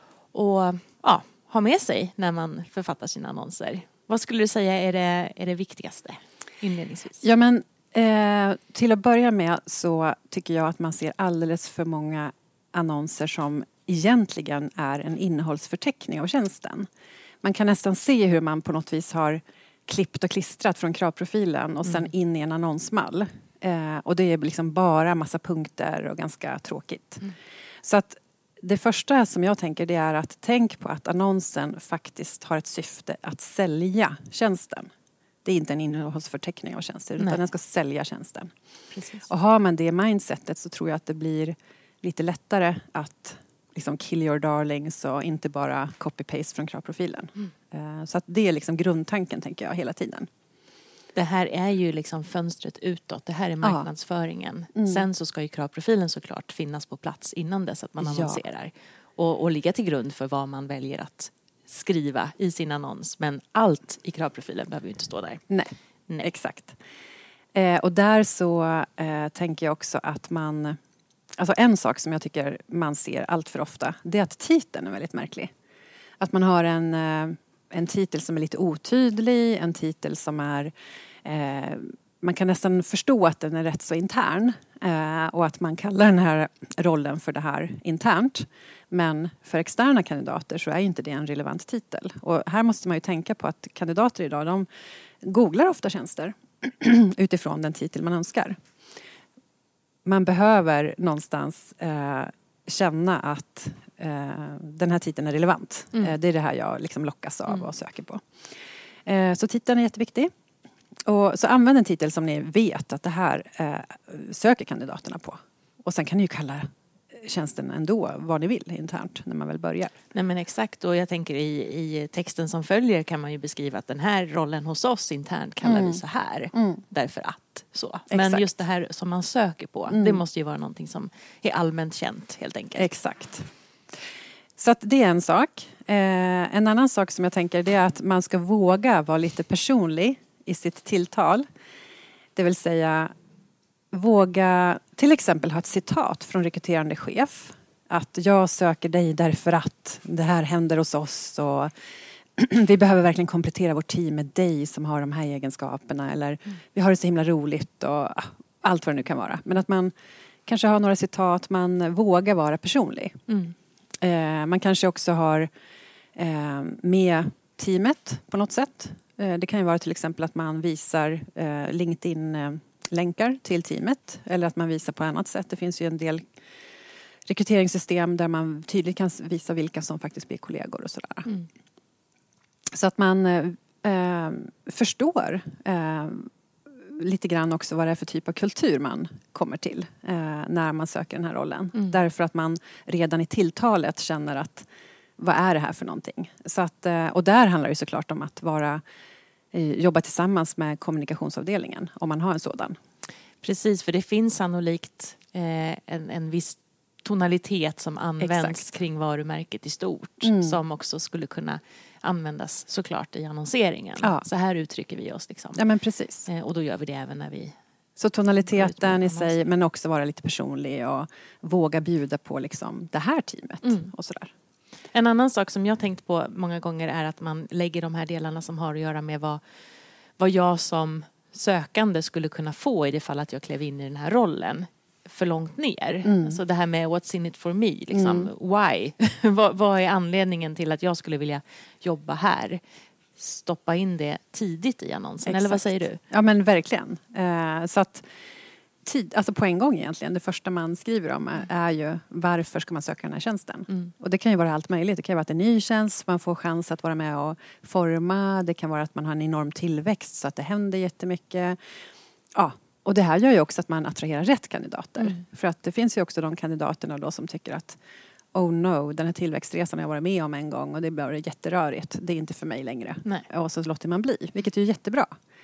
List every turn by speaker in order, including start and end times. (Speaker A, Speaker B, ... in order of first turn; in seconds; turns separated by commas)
Speaker A: 0.3-7.3, Speaker B: 7.2-16.9, Speaker B: 17.4-27.2, Speaker B: 27.8-34.9, Speaker B: 35.4-38.5, Speaker A: 38.9-39.3, Speaker B: 39.3-50.3, Speaker A: 51.1-65.4, Speaker B: 53.6-53.9, Speaker B: 54.7-55.1, Speaker B: 58.0-58.4, Speaker B: 65.5-66.8, Speaker B: 67.5-70.8, Speaker B: 71.4-75.5, Speaker B: 76.2-80.7, Speaker B: 81.2-94.7, Speaker B: 95.2-98.5, Speaker B: 100.0-108.3, Speaker B: 109.0-110.3, Speaker B: 111.0-119.9, Speaker A: 120.1-132.9, Speaker B: 125.6-126.0, Speaker B: 126.5-126.8, Speaker B: 128.1-128.4, Speaker B: 129.9-130.2, Speaker B: 132.8-133.5, Speaker B: 134.6-141.4, Speaker B: 142.3-143.1, Speaker B: 143.9-151.7, Speaker B: 152.4-159.9, Speaker B: 160.5-163.2, Speaker A: 163.3-163.5, Speaker B: 164.0-165.5, Speaker B: 166.2-176.3, Speaker B: 177.2-181.3, Speaker B: 182.7-194.7, Speaker B: 195.2-198.8, Speaker B: 199.5-202.8, Speaker A: 203.4-215.6, Speaker B: 208.2-208.7, Speaker B: 210.2-210.6, Speaker B: 215.5-216.3, Speaker A: 216.3-217.5, Speaker B: 218.0-224.3, Speaker A: 218.5-219.4, Speaker A: 223.6-223.9, Speaker A: 224.9-229.4, Speaker A: 230.2-242.6, Speaker B: 236.0-236.4, Speaker B: 237.9-238.3, Speaker A: 243.2-246.0, Speaker B: 245.2-248.1, Speaker B: 248.8-261.6, Speaker B: 262.3-267.8, Speaker B: 268.3-275.1